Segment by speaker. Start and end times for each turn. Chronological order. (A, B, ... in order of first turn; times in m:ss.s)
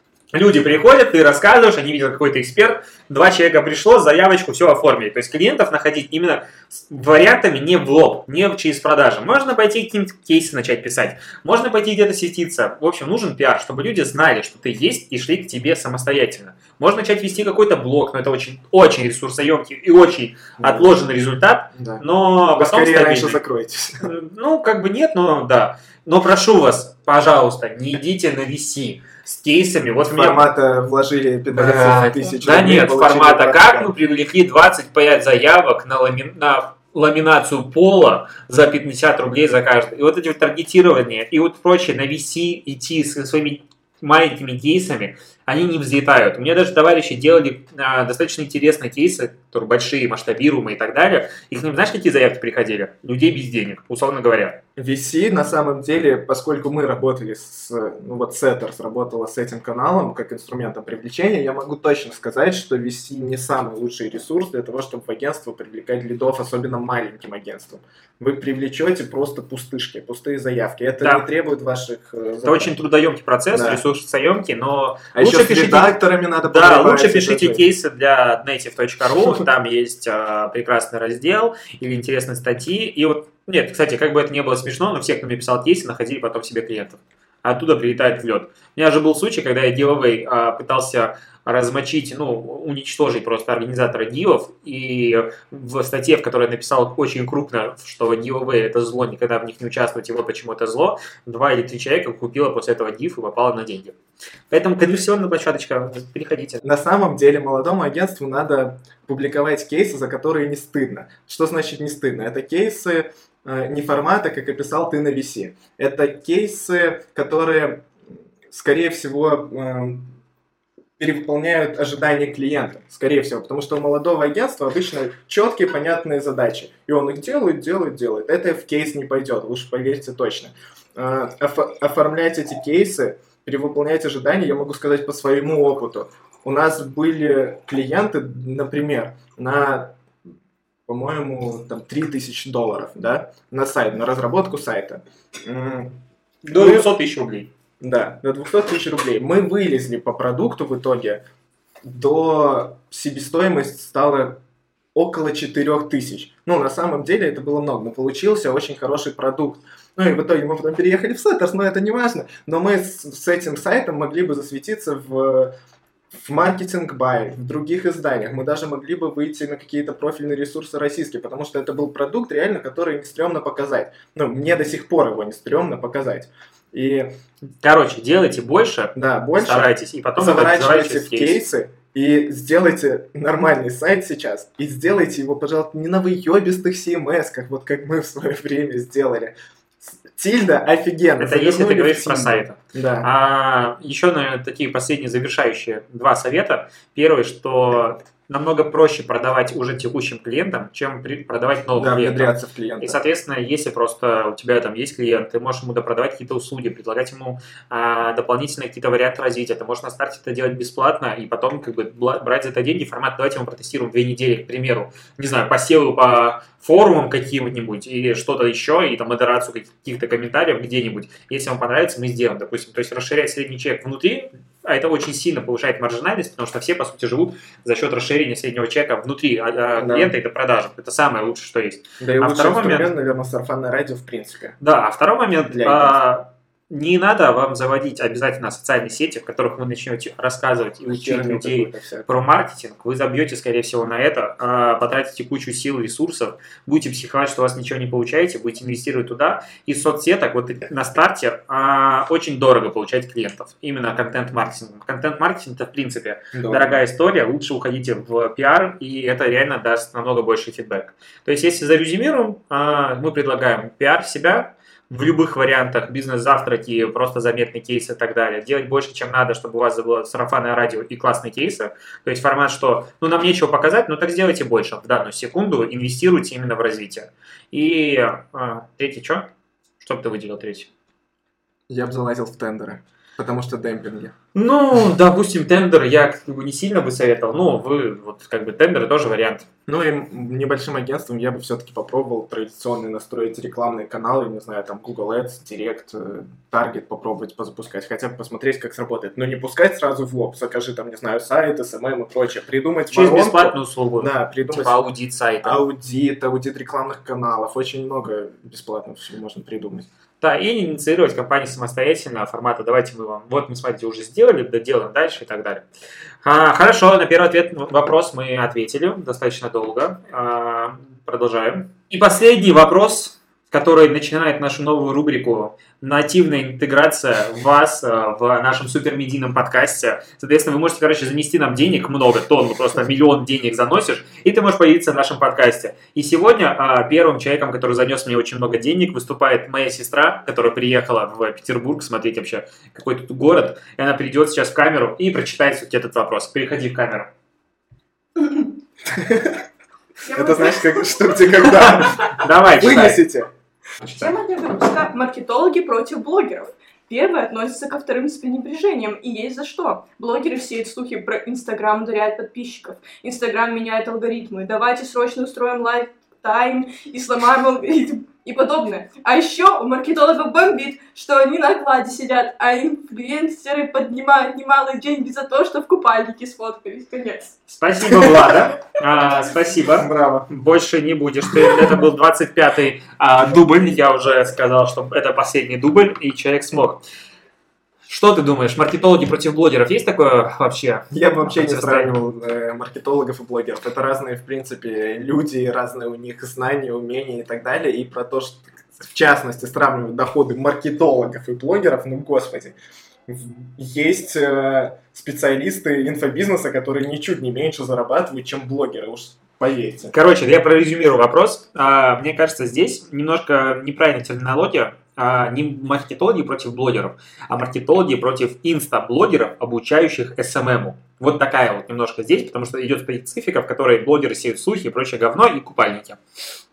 0:00.3-0:23.4 A
0:20.6-0:20.9 B
0:21.8-0:24.1 B
0:24.0-0:30.5 A
0:30.1-0:33.9 B
0:31.5-0:54.6 A
0:54.8-1:12.8 B
1:11.0-1:11.2 A
1:12.4-1:43.9 A
1:13.5-1:13.8 B
1:15.1-1:17.7 B
1:44.5-1:46.6 A
1:46.6-1:57.9 B
1:58.5-2:00.1 B
2:01.0-2:20.0 B
2:20.9-2:26.9 B
2:26.4-2:27.5 A
2:27.8-2:31.2 B
2:31.8-2:34.4 B
2:34.9-2:45.5 B
2:46.1-2:57.1 B
2:57.6-3:01.4 A
2:58.9-3:13.1 B
3:11.2-3:52.9 A
3:21.8-3:23.0 B
3:49.8-3:50.1 B
3:52.0-3:54.6 B
3:54.6-4:39.3 A
3:55.5-3:56.0 B
4:00.9-4:02.1 B
4:16.3-4:16.8 B
4:39.8-4:40.7 A
4:41.7-4:44.1 B
4:44.3-4:49.4 A
4:49.7-5:04.8 B
5:02.9-5:05.6 A
5:05.4-5:09.9 B
5:10.2-5:15.7 A
5:16.2-5:47.1 A
5:48.8-5:49.4 B
5:50.0-5:51.3 C
5:50.1-5:53.3 B
5:51.4-5:53.0 A
5:53.9-6:17.4 C
6:17.5-6:26.8 A
6:17.9-6:18.3 B
6:19.7-6:20.3 B
6:21.4-6:21.7 B
6:27.9-6:31.9 A
6:30.9-6:42.6 B
6:43.1-6:49.9 B
6:49.9-7:06.0 A